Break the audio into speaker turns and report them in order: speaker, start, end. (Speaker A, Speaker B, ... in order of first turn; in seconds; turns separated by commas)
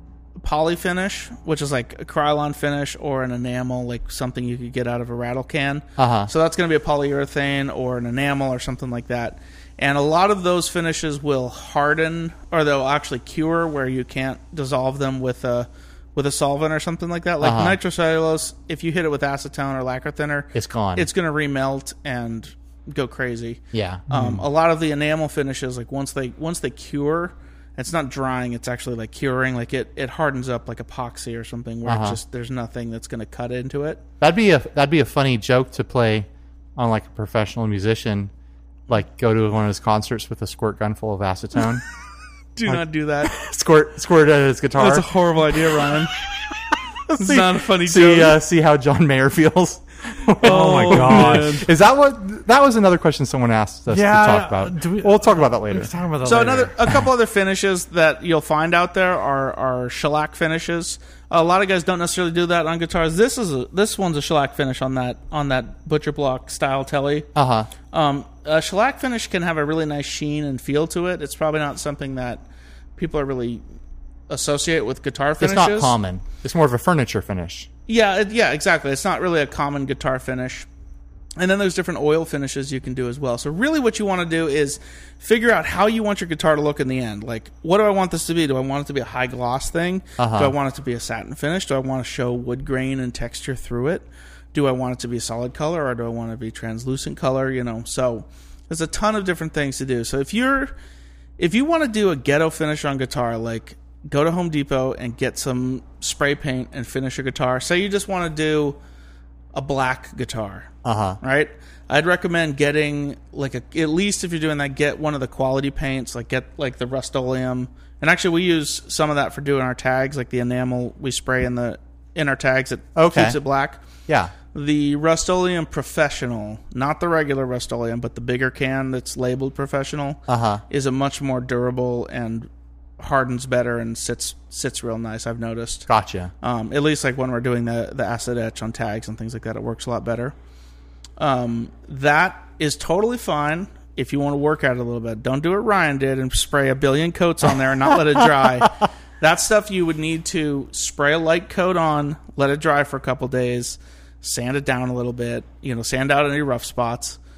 Speaker A: 0.4-34.0, Speaker B: 6.0-6.3, Speaker B: 17.4-17.8, Speaker B: 20.5-21.1, Speaker B: 23.7-24.4, Speaker B: 31.9-32.2, Speaker B: 34.2-38.3, Speaker B: 38.9-41.8, Speaker A: 42.5-43.3, Speaker B: 42.7-45.1, Speaker A: 44.8-46.1, Speaker B: 47.1-55.9, Speaker A: 47.2-48.4, Speaker A: 50.4-51.7, Speaker C: 50.4-51.6, Speaker C: 53.9-56.7, Speaker A: 56.2-67.3, Speaker B: 67.3-67.7, Speaker A: 67.9-72.4, Speaker A: 73.0-73.6, Speaker A: 74.3-75.9, Speaker B: 75.4-77.7, Speaker A: 77.9-80.7, Speaker A: 81.4-100.7, Speaker B: 90.2-90.5, Speaker A: 101.4-108.8, Speaker A: 109.5-123.8, Speaker B: 110.8-111.2, Speaker B: 123.0-123.4, Speaker B: 124.1-124.3, Speaker A: 124.5-135.9, Speaker B: 130.3-130.6, Speaker B: 135.9-136.3, Speaker A: 136.4-140.3, Speaker A: 141.2-157.2